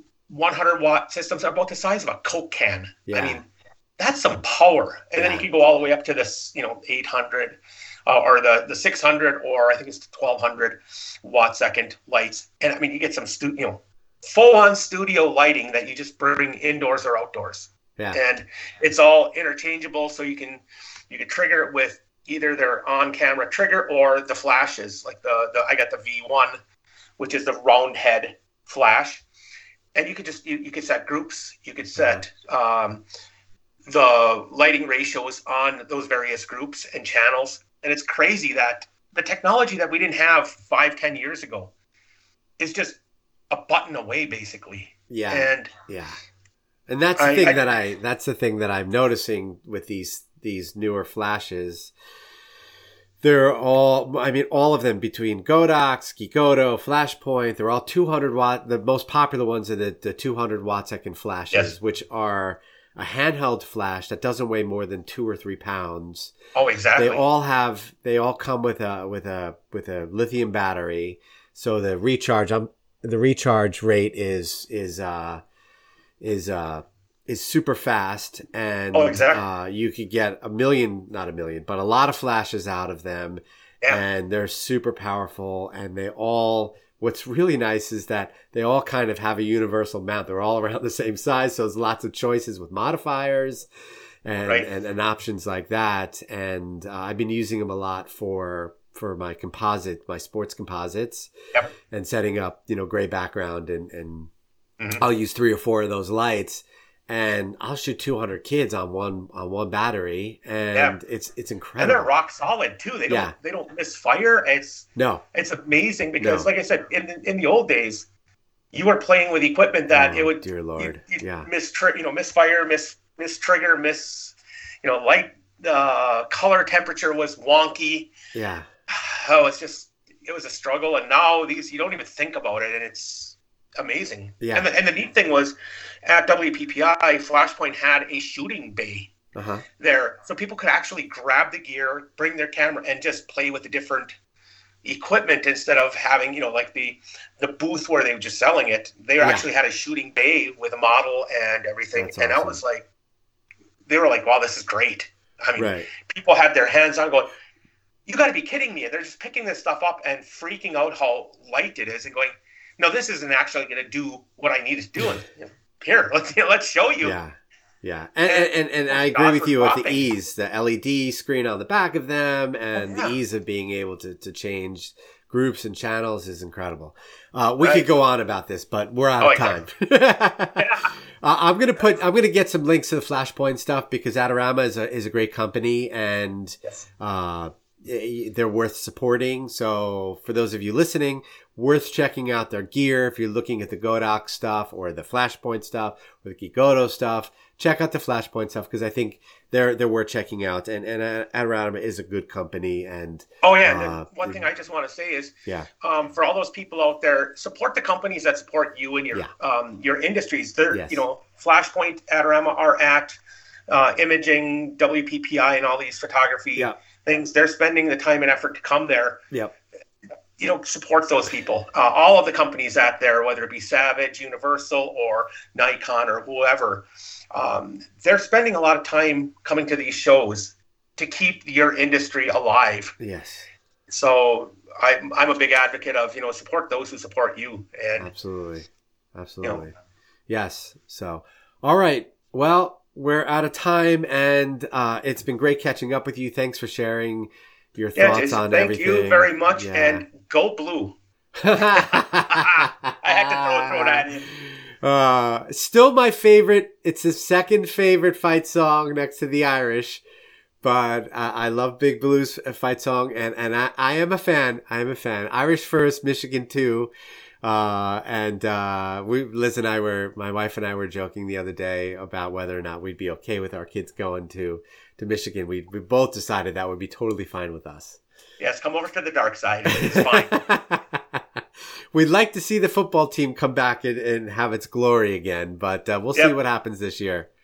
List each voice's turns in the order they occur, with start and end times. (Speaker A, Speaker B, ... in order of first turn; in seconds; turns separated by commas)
Speaker A: 0.3-3.5, Speaker B: 3.1-3.4, Speaker A: 4.0-26.6, Speaker B: 5.2-5.5, Speaker A: 27.2-29.2, Speaker A: 29.9-33.0, Speaker B: 31.9-32.2, Speaker A: 33.9-41.7, Speaker A: 42.6-43.0, Speaker A: 43.5-45.7, Speaker B: 45.1-46.2, Speaker B: 46.9-51.9, Speaker A: 47.2-47.6, Speaker B: 53.2-66.3, Speaker A: 66.5-67.2, Speaker B: 67.0-75.4, Speaker B: 76.2-93.7, Speaker A: 78.9-79.4, Speaker B: 94.2-101.3, Speaker B: 101.9-104.3, Speaker B: 105.0-112.1, Speaker A: 111.8-118.1, Speaker B: 113.1-113.3, Speaker B: 115.0-115.2, Speaker B: 116.2-116.5, Speaker A: 118.7-128.1, Speaker B: 119.9-121.5, Speaker B: 128.3-128.7, Speaker A: 128.9-135.5, Speaker B: 134.4-134.7, Speaker A: 136.1-139.1, Speaker B: 139.3-139.6, Speaker A: 139.8-144.1, Speaker A: 144.8-152.9, Speaker B: 149.2-149.4, Speaker B: 151.9-152.6, Speaker A: 153.9-157.3, Speaker B: 155.6-155.9, Speaker A: 158.1-167.2, Speaker B: 167.0-204.4, Speaker A: 168.2-170.1, Speaker A: 172.8-173.2, Speaker A: 177.6-177.9, Speaker A: 179.2-179.6, Speaker A: 180.6-180.9, Speaker A: 203.4-219.2, Speaker B: 210.7-211.0, Speaker A: 220.4-232.9, Speaker B: 233.0-233.5, Speaker A: 233.9-238.1, Speaker B: 238.0-239.7, Speaker A: 239.4-239.7, Speaker B: 240.3-250.1, Speaker A: 247.9-250.9, Speaker B: 251.4-260.0, Speaker A: 251.5-254.3, Speaker B: 260.6-266.9, Speaker B: 267.4-278.0, Speaker A: 278.4-280.4, Speaker B: 279.7-287.3